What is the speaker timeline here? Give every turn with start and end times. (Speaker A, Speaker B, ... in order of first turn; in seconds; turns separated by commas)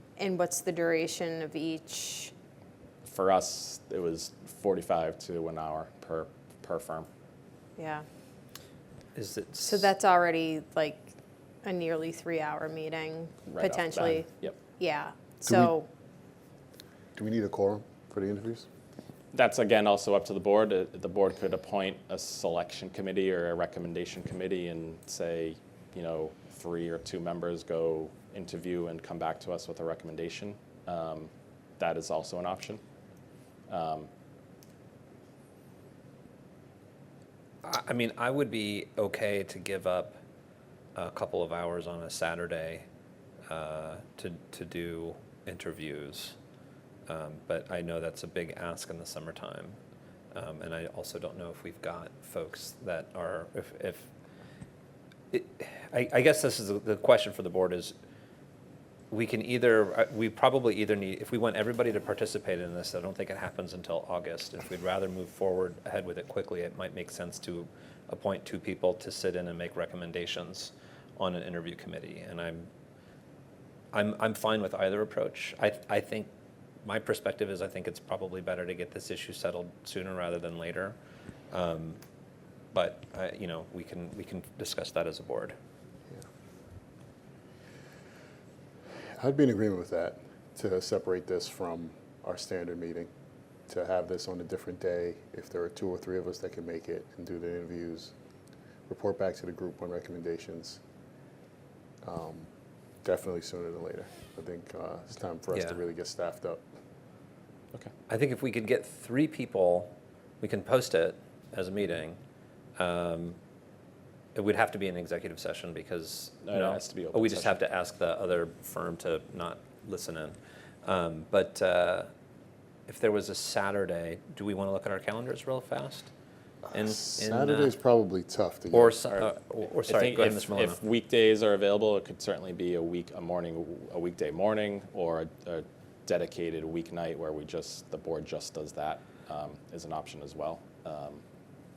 Speaker A: 0.2-2.3, Speaker B: 3.0-7.1, Speaker A: 7.8-8.0, Speaker C: 9.1-9.9, Speaker A: 9.6-11.1, Speaker A: 11.6-15.9, Speaker B: 13.5-14.5, Speaker D: 15.5-15.7, Speaker D: 17.1-18.7, Speaker B: 19.3-32.8, Speaker B: 33.7-34.1, Speaker C: 37.6-40.2, Speaker C: 41.0-42.9, Speaker C: 43.5-46.4, Speaker C: 47.1-49.8, Speaker C: 50.3-54.1, Speaker C: 55.3-58.0, Speaker C: 59.1-72.7, Speaker C: 73.9-76.3, Speaker C: 76.8-81.0, Speaker C: 81.5-82.0, Speaker C: 82.7-85.5, Speaker D: 89.2-93.1, Speaker D: 93.7-98.1, Speaker D: 98.9-100.8, Speaker D: 102.0-102.5, Speaker D: 103.0-106.6, Speaker C: 105.5-105.8, Speaker C: 108.1-112.2, Speaker C: 112.8-113.4, Speaker C: 114.3-122.1, Speaker B: 116.5-117.6, Speaker C: 122.9-126.1, Speaker C: 126.7-127.8, Speaker D: 126.9-129.0, Speaker C: 128.7-130.8, Speaker B: 129.1-141.2